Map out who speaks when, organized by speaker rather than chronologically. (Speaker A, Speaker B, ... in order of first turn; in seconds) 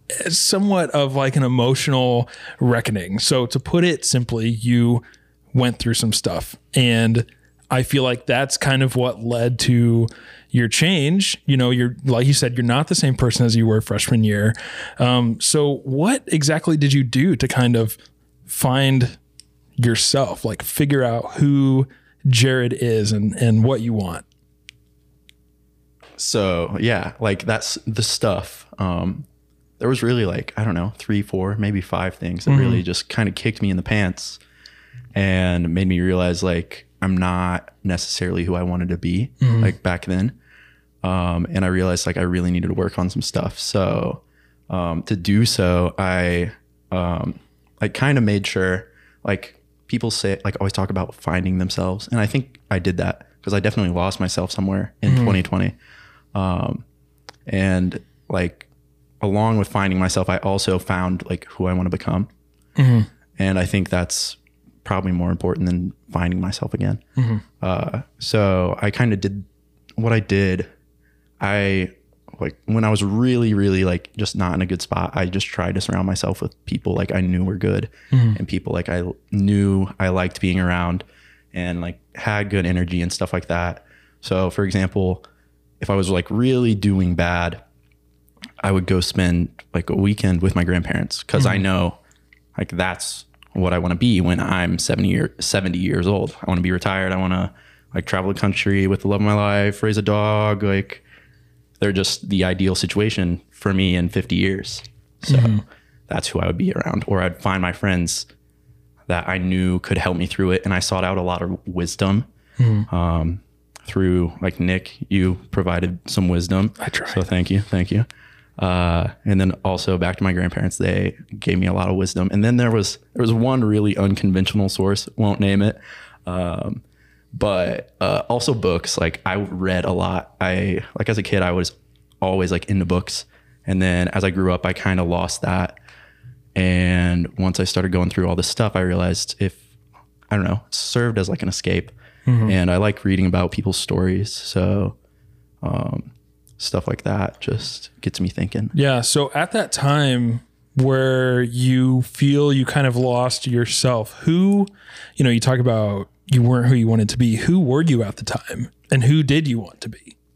Speaker A: 0.2-19.2, 19.8-24.2, 32.5-32.8, 39.4-39.7, 55.0-55.4, 62.8-63.1, 67.2-67.4, 78.1-78.4, 105.2-105.6, 112.6-112.9, 116.8-117.2, 142.3-142.6, 148.7-160.1
Speaker B: 26.2-29.2, 29.8-34.4, 35.1-40.4, 41.0-55.7, 56.3-56.8, 57.5-58.7, 59.2-62.3, 63.4-67.0, 67.6-70.7, 71.4-85.2, 85.8-87.6, 88.6-92.0, 92.5-101.0, 101.8-108.3, 109.1-112.3, 112.9-118.1, 118.6-126.8, 127.3-135.8, 136.5-139.6, 140.3-144.9, 145.6-148.7